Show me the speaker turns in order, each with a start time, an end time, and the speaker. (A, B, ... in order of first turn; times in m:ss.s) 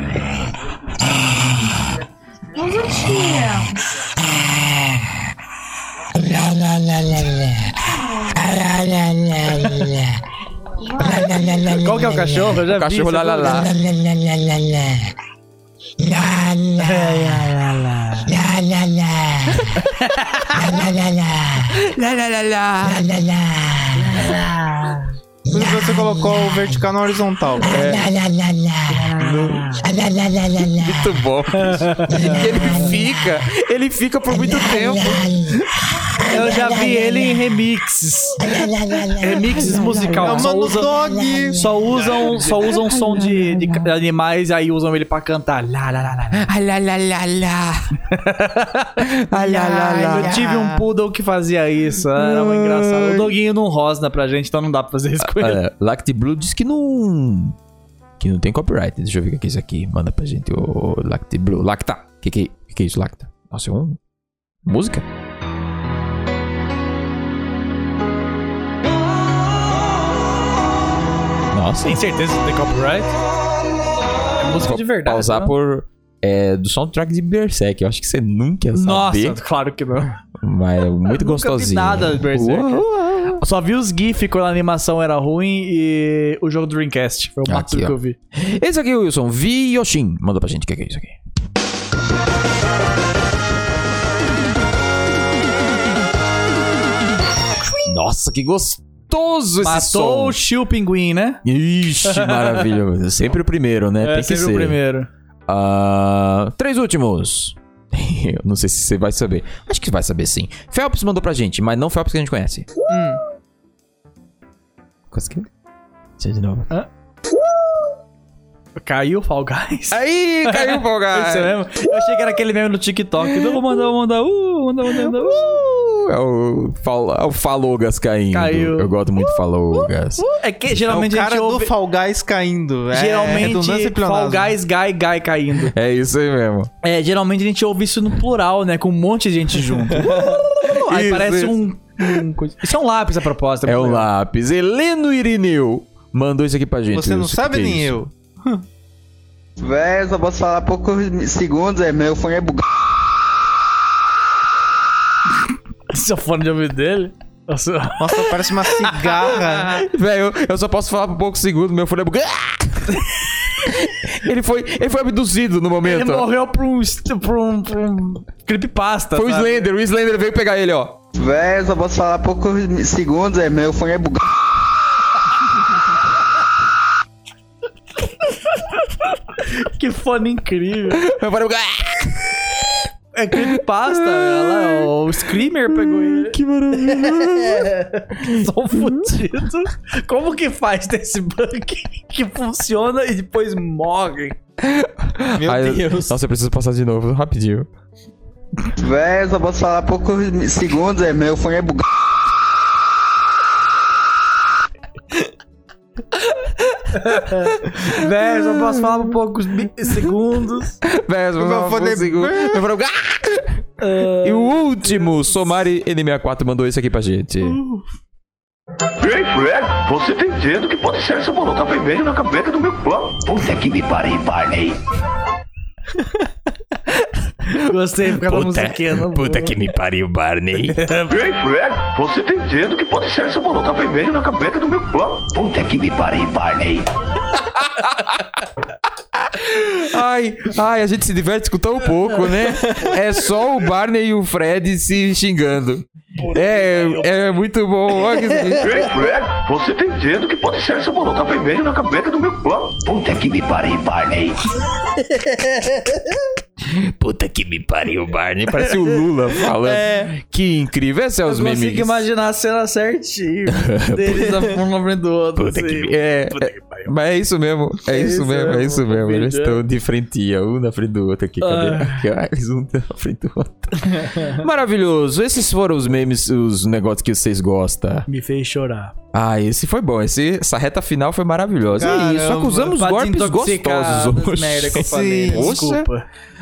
0:02.5-0:04.0 A
0:11.0-0:13.7 A
0:12.6-0:13.8 B
0:16.8-0:18.3 A
0:20.0-0:20.8 A
0:21.6-0:23.4 B
0:25.5-0:28.1 C
0:27.6-0:28.2 B
0:28.9-0:35.9 B
0:31.6-0:32.4 A
0:36.2-0:46.5 A
0:39.4-0:40.5 B
0:40.2-0:41.8 C
0:42.1-0:43.9 B
0:46.3-0:47.9 B
0:48.1-0:55.6 A
0:49.0-0:50.4 B
0:49.3-0:50.9 C
0:52.2-0:53.4 B
0:55.2-0:57.6 B
0:58.2-1:04.0 B
1:04.6-1:05.0 B
1:11.5-1:12.0 B
1:11.8-1:13.1 A
1:14.4-1:15.5 A
1:14.6-1:19.4 B
1:18.8-1:20.2 A
1:20.4-1:23.4 B
1:21.1-1:28.2 A
1:27.5-1:31.2 B
1:37.8-1:40.4 B
1:39.6-1:41.4 A
1:41.4-1:44.8 B
1:42.0-1:42.7 A
1:44.0-1:45.1 A
1:45.5-1:52.7 B
1:52.9-1:53.2 C
1:55.1-1:55.5 B
1:56.2-1:56.7 B
1:58.8-2:05.6 A
1:59.9-2:01.8 B
2:04.9-2:10.2 B
2:08.3-2:11.7 A
2:10.8-2:14.6 C
2:12.9-2:15.8 A
2:15.7-2:16.7 B
2:16.8-2:24.1 A
2:20.0-2:21.6 B
2:23.7-2:28.0 B
2:26.9-2:28.6 C
2:29.6-2:32.6 D
2:35.9-2:39.4 A
2:38.0-2:39.8 C
2:39.8-2:46.3 B
2:45.8-2:49.7 A
2:49.2-2:51.0 B
2:51.2-2:54.2 D
2:59.4-3:01.0 A
3:00.9-3:05.0 B
3:03.1-3:14.4 A
3:05.7-3:09.0 B
3:14.6-3:17.7 B
3:15.3-3:16.1 C
3:18.8-3:21.9 D
3:26.5-3:28.7 B
3:26.9-3:30.8 A
3:30.8-3:37.6 B
3:31.4-3:32.6 C
3:33.8-3:35.3 A
3:37.4-3:37.9 A
3:39.0-3:44.8 E
3:47.4-3:49.6 A
3:47.4-3:50.9 B
3:50.7-3:51.2 A
3:51.1-3:56.9 E
3:57.4-3:58.4 B
3:59.2-4:08.8 B
4:06.2-4:07.3 A
4:08.0-4:08.6 A
4:08.6-4:14.4 E
4:14.9-4:16.1 A
4:16.6-4:22.0 B
4:19.4-4:20.1 A
4:21.3-4:26.9 A
4:23.5-4:24.6 B
4:25.4-4:38.1 B
4:27.9-4:29.6 A
4:31.4-4:32.1 A
4:33.8-4:34.4 A
4:38.1-4:39.0 A
4:39.1-4:45.9 B
4:41.8-4:42.7 C
4:42.7-4:46.1 A
4:44.8-4:45.6 C